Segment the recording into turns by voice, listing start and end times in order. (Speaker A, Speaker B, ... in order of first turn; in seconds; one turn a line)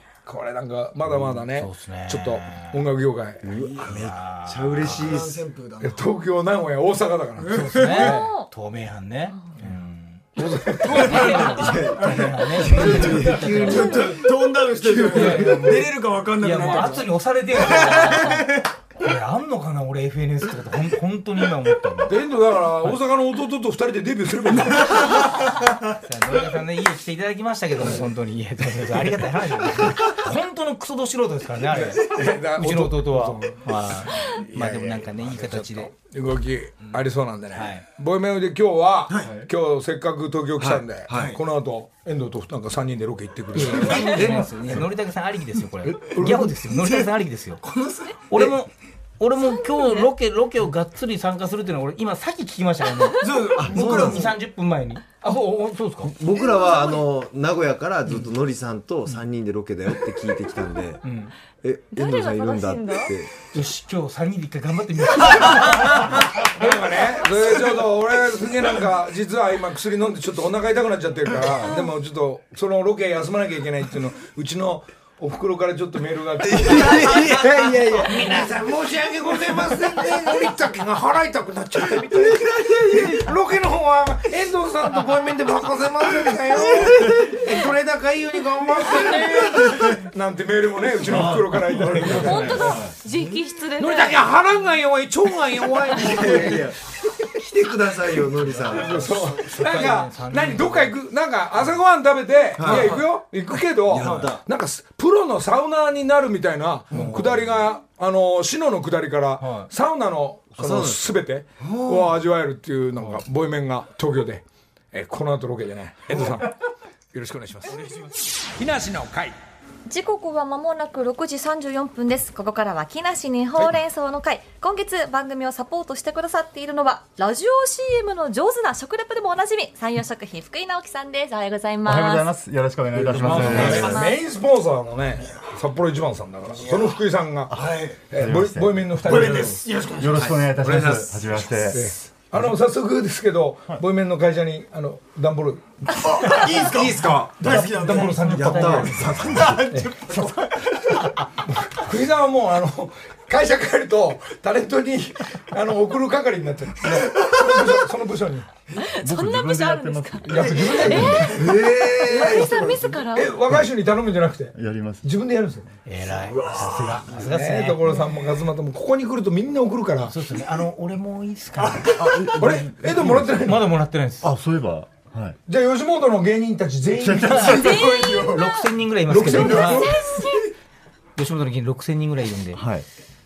Speaker A: 0.2-3.5
Speaker B: 1.1-1.4
Speaker C: 1.5-2.8
Speaker B: 3.4-5.4
Speaker D: 3.5-4.0
Speaker C: 3.8-5.1
Speaker D: 4.8-6.0
Speaker A: 5.8-8.3
Speaker D: 7.4-7.9
Speaker C: 7.5-10.3
Speaker E: 7.9-8.5
Speaker A: 10.4-11.5
Speaker C: 10.8-14.0
Speaker D: 11.0-18.7
Speaker B: 11.6-14.2
Speaker A: 14.8-15.7
Speaker C: 15.1-22.1
Speaker A: 22.1-25.3
Speaker C: 25.9-35.9
Speaker A: 32.0-33.6
Speaker A: 34.3-44.4
Speaker C: 37.5-37.9
Speaker D: 39.1-39.4
Speaker B: 40.6-41.4
Speaker C: 43.5-47.6
Speaker B: 44.1-44.7
Speaker A: 45.9-46.5
Speaker D: 47.6-48.3
Speaker C: 48.3-56.1
Speaker E: 49.6-50.1
Speaker D: 53.2-54.4
Speaker B: 53.6-54.0
Speaker B: 56.0-61.0
Speaker E: 56.3-57.0
Speaker C: 61.0-61.3
Speaker B: 61.6-63.5
Speaker E: 61.9-63.1
Speaker C: 63.5-66.1
Speaker A: 66.4-92.8
Speaker B: 76.5-77.5
Speaker D: 89.5-89.9
Speaker F: 91.1-92.9
Speaker E: 92.0-94.2
Speaker A: 93.8-96.7
Speaker B: 95.3-96.8
Speaker B: 97.3-99.2
Speaker A: 98.7-116.5
Speaker C: 99.2-101.0
Speaker B: 102.6-103.0
Speaker D: 102.7-102.9
Speaker B: 103.8-104.4
Speaker C: 109.4-109.7
Speaker B: 110.6-111.2
Speaker D: 111.6-112.1
Speaker A: 117.1-117.8
Speaker A: 118.6-119.3
Speaker E: 119.9-132.3
Speaker F: 131.8-134.0
Speaker A: 133.2-137.6
Speaker B: 133.3-134.0
Speaker E: 133.4-134.2
Speaker D: 136.5-137.0
Speaker F: 137.5-139.2
Speaker D: 137.5-138.1
Speaker A: 138.1-139.6
Speaker D: 139.0-140.3
Speaker F: 140.0-142.5
Speaker B: 140.1-141.9
Speaker A: 141.7-146.5
Speaker D: 146.0-151.1
Speaker B: 146.3-147.4
Speaker A: 147.4-150.3
Speaker C: 147.9-149.1
Speaker B: 148.3-149.5
Speaker F: 149.1-149.6
Speaker A: 151.4-158.5
Speaker E: 158.8-163.4
Speaker F: 159.0-161.3
Speaker A: 160.3-161.6
Speaker D: 161.1-163.1
Speaker B: 161.3-162.5
Speaker A: 163.2-165.7
Speaker F: 164.5-165.1
Speaker C: 165.9-168.0
Speaker D: 166.1-167.2
Speaker A: 167.1-170.2
Speaker C: 170.1-172.0
Speaker D: 171.6-172.5
Speaker F: 171.9-173.4
Speaker A: 172.4-173.7
Speaker C: 173.4-174.3
Speaker F: 174.2-175.4
Speaker A: 175.5-177.8
Speaker F: 177.0-177.4
Speaker C: 177.2-179.9
Speaker D: 177.2-178.5
Speaker E: 177.5-178.6
Speaker A: 179.1-180.0
Speaker D: 179.1-180.4
Speaker E: 179.4-180.5
Speaker C: 181.2-182.6
Speaker F: 182.5-182.9